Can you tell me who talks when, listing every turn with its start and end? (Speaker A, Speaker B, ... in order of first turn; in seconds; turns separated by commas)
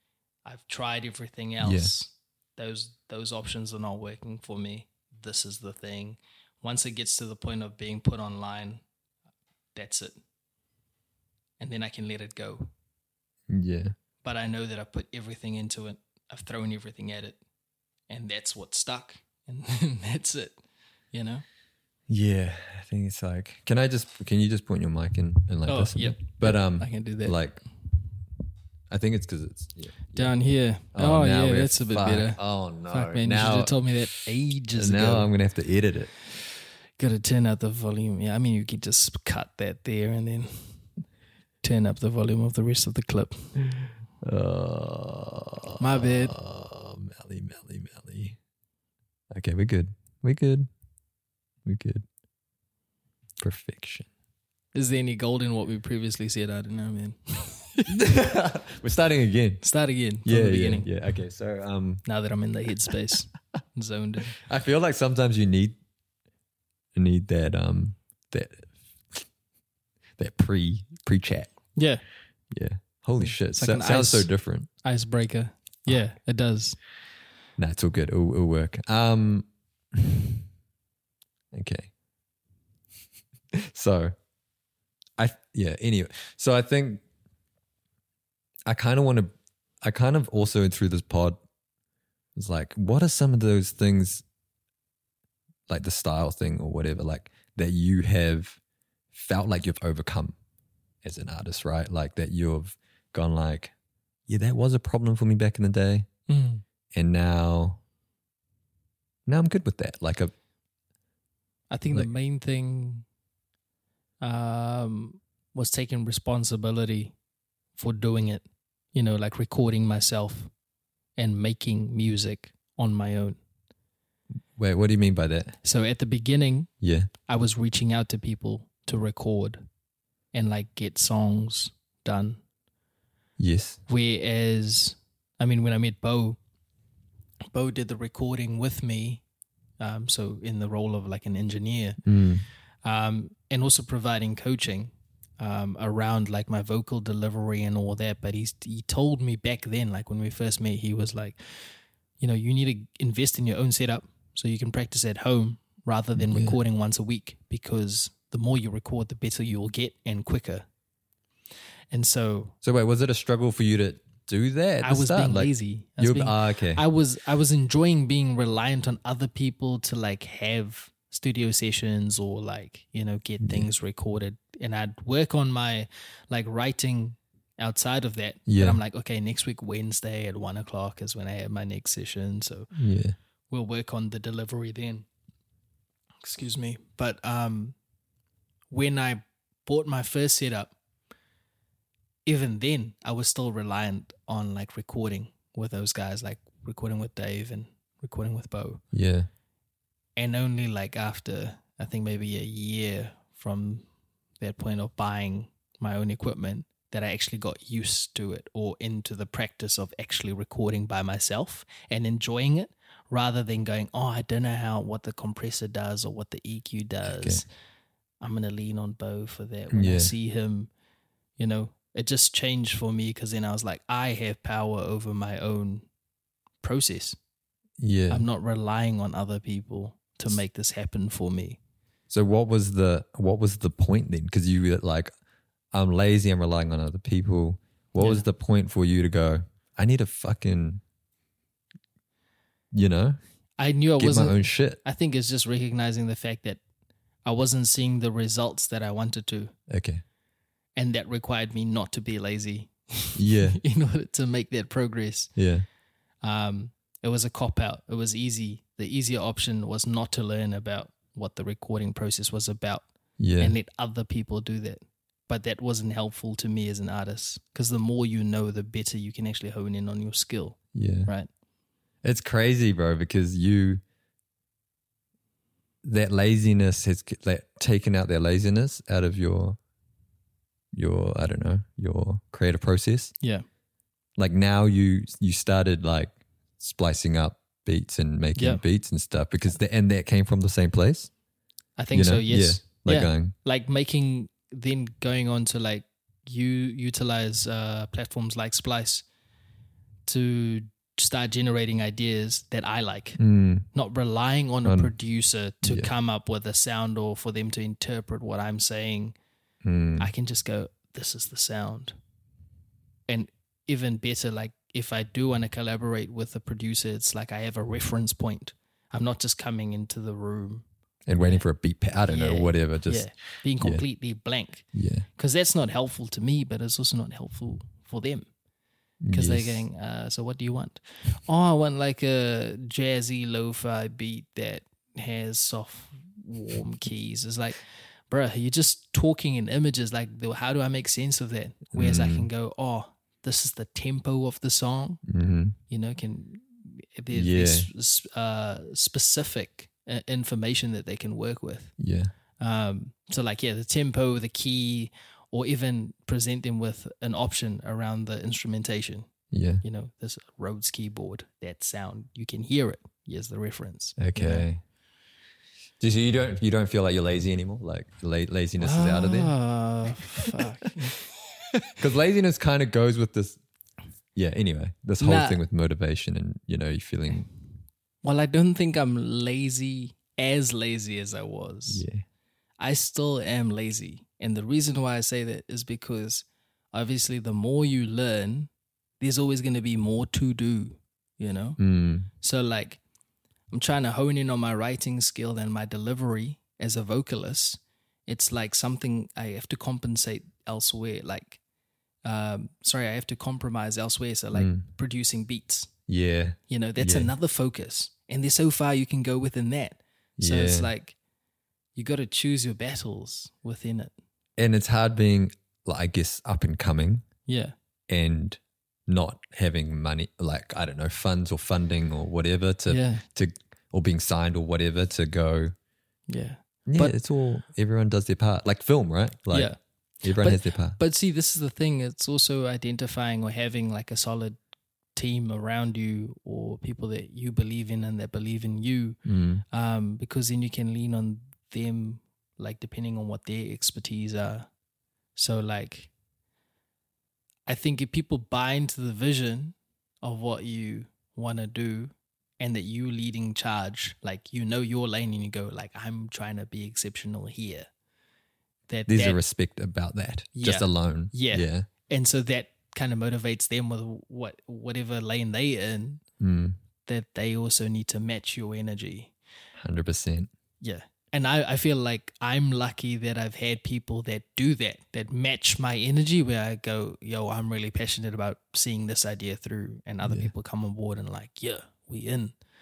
Speaker A: 0.4-8.8, Speaker B: 1.6-1.9, Speaker A: 9.7-10.1, Speaker A: 11.6-12.7, Speaker B: 13.5-13.9, Speaker A: 14.2-17.4, Speaker A: 18.1-20.6, Speaker A: 21.1-21.4, Speaker B: 22.1-27.6, Speaker A: 25.7-27.4, Speaker B: 28.9-30.3, Speaker A: 30.1-35.3, Speaker B: 30.9-34.2, Speaker B: 34.7-36.1, Speaker A: 37.0-40.8, Speaker A: 41.6-43.6, Speaker B: 44.2-48.4, Speaker A: 45.8-46.4, Speaker B: 49.3-50.7, Speaker B: 51.6-52.0, Speaker B: 53.4-54.1, Speaker A: 54.7-57.9, Speaker B: 57.9-59.6, Speaker A: 59.6-60.9, Speaker B: 60.2-62.0, Speaker A: 62.0-64.4, Speaker B: 64.4-65.8, Speaker B: 66.9-69.2, Speaker B: 70.2-71.5, Speaker A: 71.8-72.0, Speaker B: 72.5-74.7, Speaker A: 73.5-74.3, Speaker A: 74.8-76.8, Speaker B: 77.6-80.4, Speaker B: 81.5-81.9, Speaker B: 83.5-84.2, Speaker B: 85.2-87.0, Speaker B: 88.7-89.3, Speaker B: 89.8-91.4, Speaker B: 92.3-94.2, Speaker B: 95.7-98.6, Speaker B: 99.1-100.3, Speaker B: 101.0-103.7, Speaker B: 104.3-106.1, Speaker A: 106.3-106.6, Speaker B: 106.9-107.8, Speaker B: 109.3-110.3, Speaker A: 111.7-113.0, Speaker A: 114.2-117.1, Speaker A: 117.8-120.5, Speaker A: 121.2-123.4, Speaker B: 124.6-125.6, Speaker A: 125.6-126.7, Speaker B: 126.8-127.1, Speaker A: 127.2-129.7, Speaker A: 130.3-132.4, Speaker B: 133.4-133.8, Speaker A: 133.9-136.4, Speaker A: 137.5-139.2, Speaker A: 139.8-142.0, Speaker B: 142.0-142.4, Speaker A: 142.8-160.7, Speaker B: 156.2-156.6, Speaker A: 161.9-162.5, Speaker B: 162.6-166.8, Speaker A: 164.8-182.7, Speaker B: 173.4-173.7, Speaker B: 178.5-178.8, Speaker B: 182.7-183.2, Speaker A: 183.5-185.1, Speaker A: 186.2-187.8, Speaker A: 188.7-190.8, Speaker A: 192.2-198.8, Speaker B: 198.9-199.3, Speaker A: 200.2-203.9, Speaker A: 204.4-217.5, Speaker B: 217.1-217.4, Speaker A: 218.2-220.7, Speaker B: 219.7-220.1, Speaker A: 221.4-225.9, Speaker A: 226.6-227.2, Speaker B: 227.8-228.2, Speaker A: 228.1-231.6, Speaker B: 232.1-235.1, Speaker B: 235.7-240.8, Speaker A: 238.0-238.2, Speaker B: 242.7-243.2, Speaker A: 243.6-246.6, Speaker B: 244.0-244.8, Speaker A: 247.2-249.5, Speaker B: 249.7-250.0, Speaker A: 250.8-255.3, Speaker B: 253.2-253.6, Speaker B: 255.3-255.7, Speaker A: 256.2-262.9, Speaker B: 263.2-263.5, Speaker A: 263.4-271.3, Speaker B: 270.7-271.1, Speaker B: 272.0-273.8, Speaker B: 275.8-279.6, Speaker B: 280.7-283.1, Speaker B: 284.2-291.1, Speaker A: 288.4-288.6, Speaker A: 291.8-299.1, Speaker B: 291.9-293.3, Speaker A: 300.1-303.2, Speaker B: 303.2-303.7, Speaker A: 303.7-309.1, Speaker B: 304.6-304.9, Speaker B: 305.6-305.9, Speaker B: 309.6-310.1, Speaker A: 310.0-311.9, Speaker A: 313.1-320.6, Speaker B: 321.1-323.8, Speaker A: 322.1-328.3, Speaker B: 324.7-325.1, Speaker B: 329.0-329.6, Speaker A: 329.1-345.0, Speaker B: 341.7-342.3, Speaker B: 345.1-345.6, Speaker A: 345.7-351.7, Speaker B: 347.1-347.7, Speaker B: 351.8-352.1, Speaker A: 352.4-359.1, Speaker B: 359.3-359.6, Speaker A: 359.6-364.4, Speaker B: 364.0-364.6, Speaker B: 365.8-369.3, Speaker A: 368.6-371.7, Speaker B: 371.8-373.4, Speaker B: 374.1-377.3, Speaker A: 375.0-375.4, Speaker A: 378.0-381.8, Speaker B: 381.7-382.0, Speaker A: 382.6-391.6, Speaker B: 391.6-392.1, Speaker A: 392.2-392.8, Speaker A: 393.5-401.4, Speaker A: 402.0-405.7, Speaker B: 404.3-404.6, Speaker B: 405.9-407.1, Speaker A: 406.5-410.9, Speaker B: 410.2-410.7, Speaker A: 411.7-413.9, Speaker B: 414.4-417.0, Speaker A: 417.3-417.5, Speaker B: 417.9-425.5, Speaker A: 422.7-423.0, Speaker A: 426.1-427.0, Speaker B: 426.7-430.8, Speaker A: 429.3-429.6, Speaker A: 430.1-434.4, Speaker A: 434.9-439.0, Speaker B: 439.0-439.4, Speaker A: 439.5-444.5, Speaker A: 445.1-445.9, Speaker A: 447.5-457.7, Speaker A: 458.7-459.2, Speaker B: 458.9-461.7, Speaker A: 460.3-466.0, Speaker B: 466.2-466.6, Speaker A: 466.9-469.1, Speaker B: 469.6-470.3, Speaker A: 470.6-482.4, Speaker B: 480.0-480.3